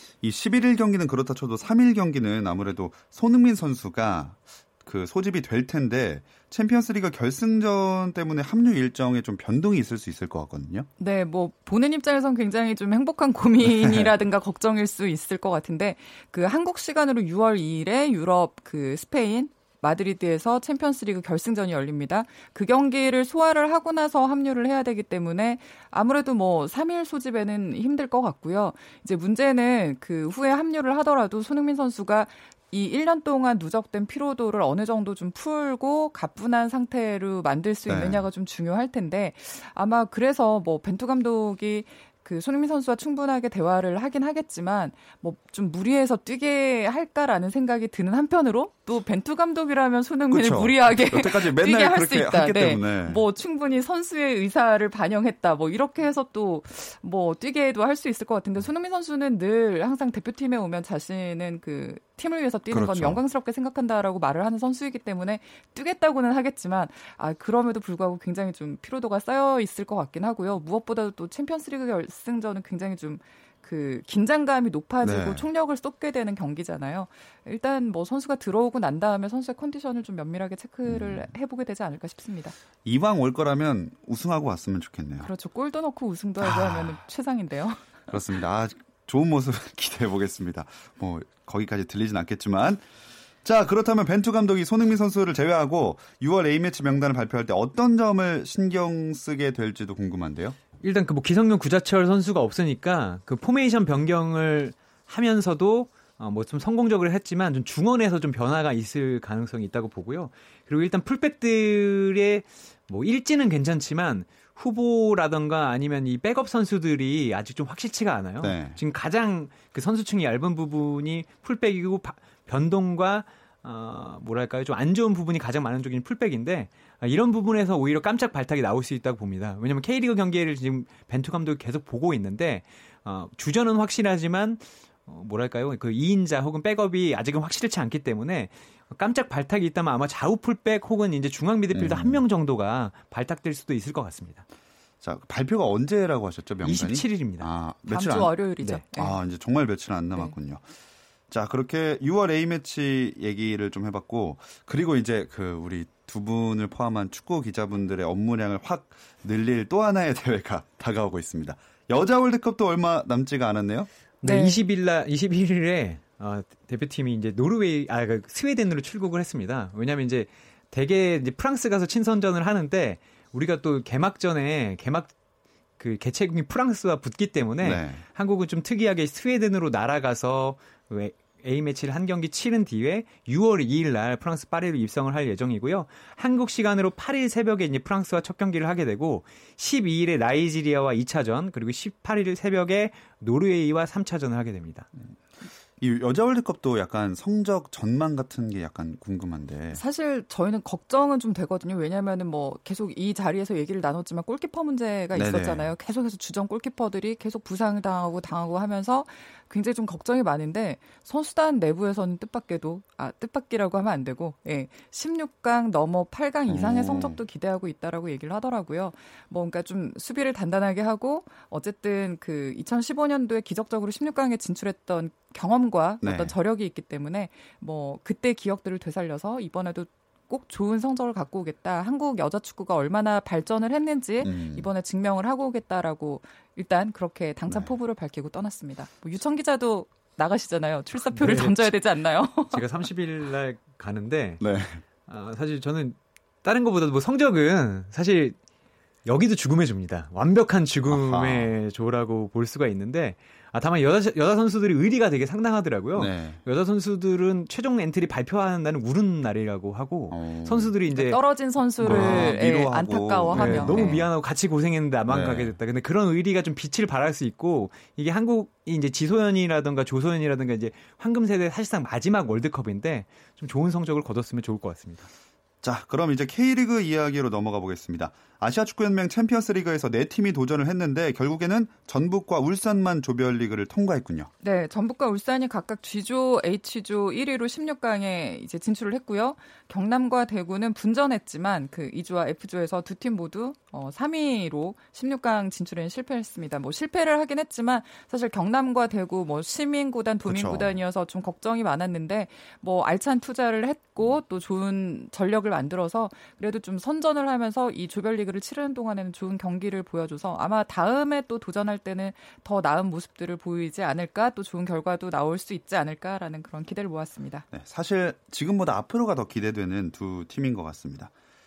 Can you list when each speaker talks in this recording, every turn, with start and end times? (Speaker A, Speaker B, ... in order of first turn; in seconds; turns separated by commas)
Speaker A: 0.2-10.9, Speaker B: 11.0-82.5, Speaker A: 13.7-14.1, Speaker A: 37.9-38.2, Speaker A: 50.3-53.2, Speaker A: 62.7-63.2, Speaker A: 75.0-75.5, Speaker A: 80.9-81.2, Speaker A: 82.8-85.3, Speaker B: 85.2-87.9, Speaker A: 86.4-87.0, Speaker A: 88.1-92.8, Speaker A: 93.4-100.6, Speaker C: 100.8-144.4, Speaker A: 118.4-118.8, Speaker A: 141.7-142.2, Speaker A: 145.0-148.3, Speaker C: 146.6-147.5, Speaker B: 147.9-149.2, Speaker A: 148.9-150.6, Speaker A: 151.3-163.9, Speaker C: 164.2-175.1, Speaker B: 164.2-164.6, Speaker C: 175.8-194.9, Speaker A: 177.6-178.0, Speaker A: 195.8-199.8, Speaker B: 199.7-242.6, Speaker A: 205.2-205.7, Speaker A: 216.5-217.2, Speaker A: 226.0-226.3, Speaker A: 234.2-234.7, Speaker C: 241.1-241.8, Speaker C: 242.5-244.4, Speaker A: 244.4-244.8, Speaker C: 245.1-248.4, Speaker C: 249.1-261.2, Speaker A: 250.9-251.5, Speaker A: 255.9-256.4, Speaker A: 260.1-260.7, Speaker B: 260.9-264.0, Speaker A: 261.8-264.1, Speaker C: 261.8-262.4, Speaker C: 263.3-275.1, Speaker A: 265.1-265.6, Speaker A: 275.6-284.3, Speaker B: 284.4-317.4, Speaker A: 300.2-300.7, Speaker A: 317.5-321.1